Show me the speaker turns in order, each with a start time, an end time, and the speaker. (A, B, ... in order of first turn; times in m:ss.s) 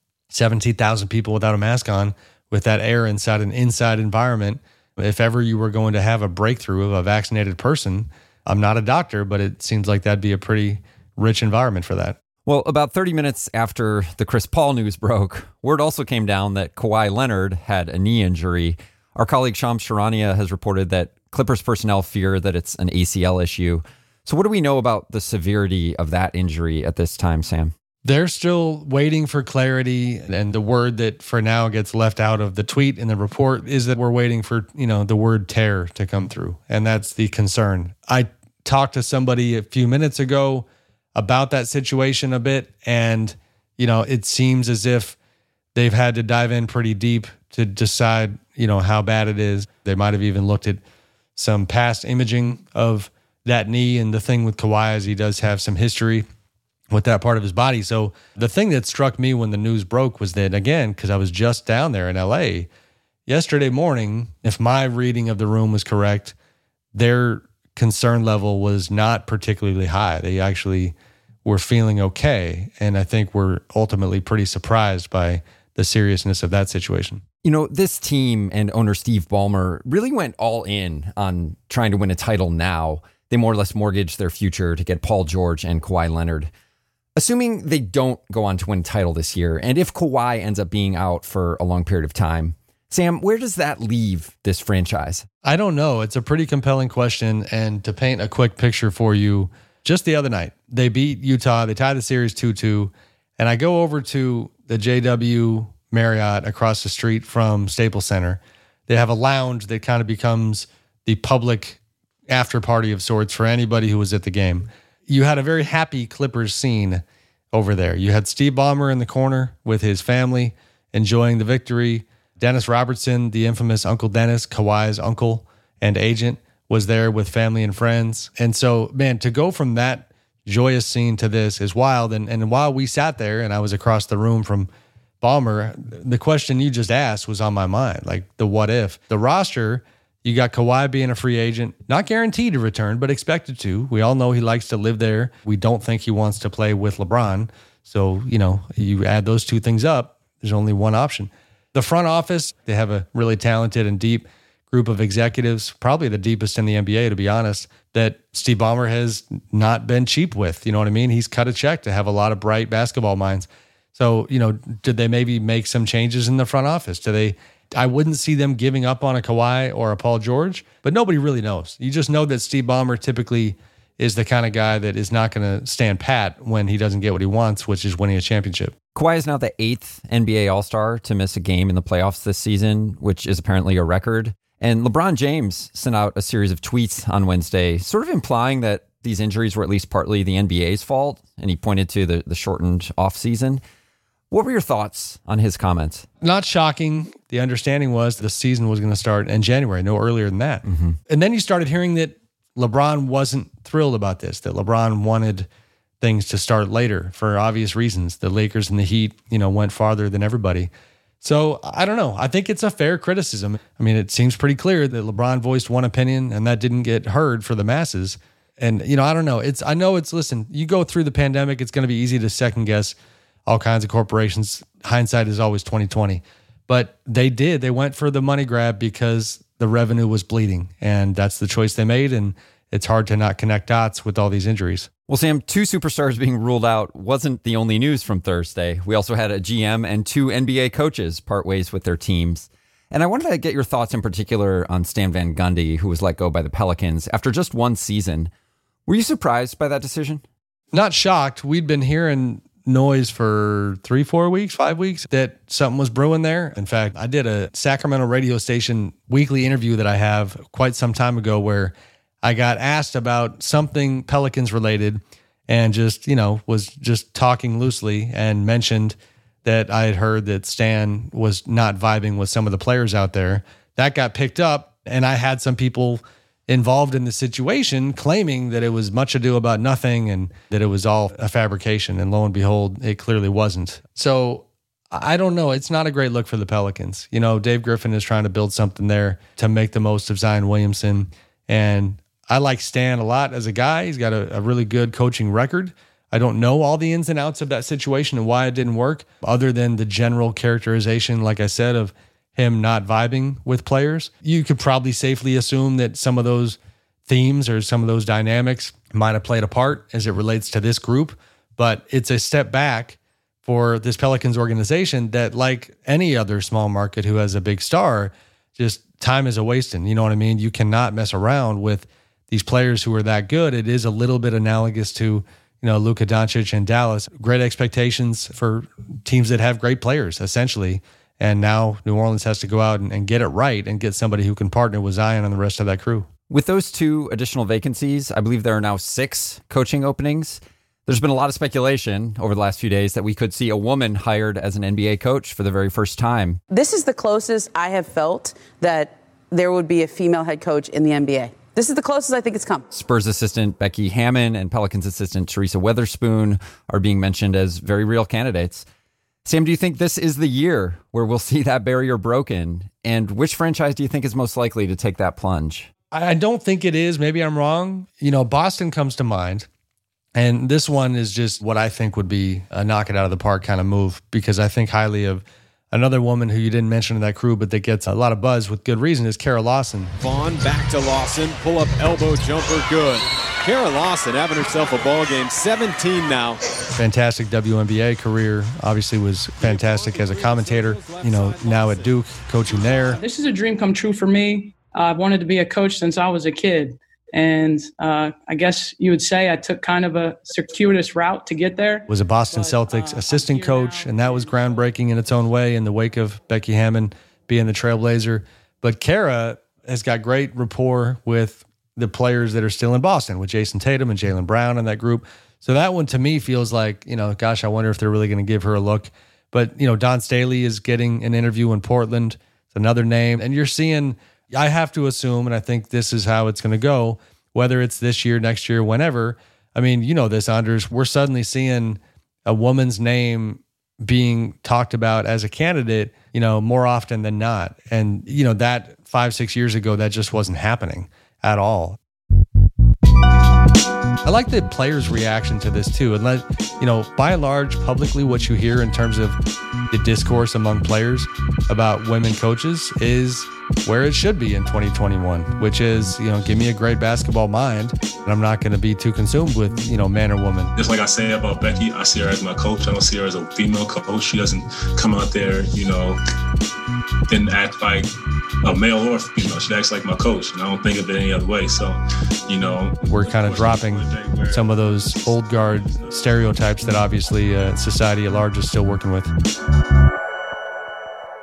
0:00.3-0:12.2 A
0:12.4-0:27.7 B
0:28.0-0:45.2 A
0:45.7-0:50.8 A
0:51.4-0:56.2 A
0:56.9-1:02.7 A
1:03.3-1:06.4 A
1:06.9-1:17.2 A
1:17.4-1:26.5 B
1:27.2-1:35.2 B
1:35.4-1:57.0 A
1:57.5-2:14.7 A
2:15.2-2:58.7 A
2:58.9-3:13.6 B
3:14.3-3:16.1 B
3:16.2-3:25.5 A
3:20.7-3:21.0 B
3:26.0-3:30.7 A
3:31.2-3:42.9 A
3:43.5-3:54.9 A
3:55.1-4:08.3 B
4:08.9-4:10.2 B
4:10.7-5:36.1 A
5:36.3-5:46.4 B
5:46.5-5:52.6 C
5:52.7-5:58.6 B
5:59.2-6:05.7 B
6:05.9-6:09.4 A
6:10.2-6:19.9 A
6:20.0-6:26.4 D
6:26.8-6:33.0 A
6:29.4-6:32.0 D
6:32.6-6:32.9 D
6:32.9-6:44.7 E
6:41.9-7:21.8 A
7:24.0-7:29.2 A
7:29.7-7:40.5 A
7:40.6-7:46.0 F
7:47.1-7:47.9 F
7:48.4-7:51.8 F
7:52.3-7:56.1 F
7:52.9-7:59.1 A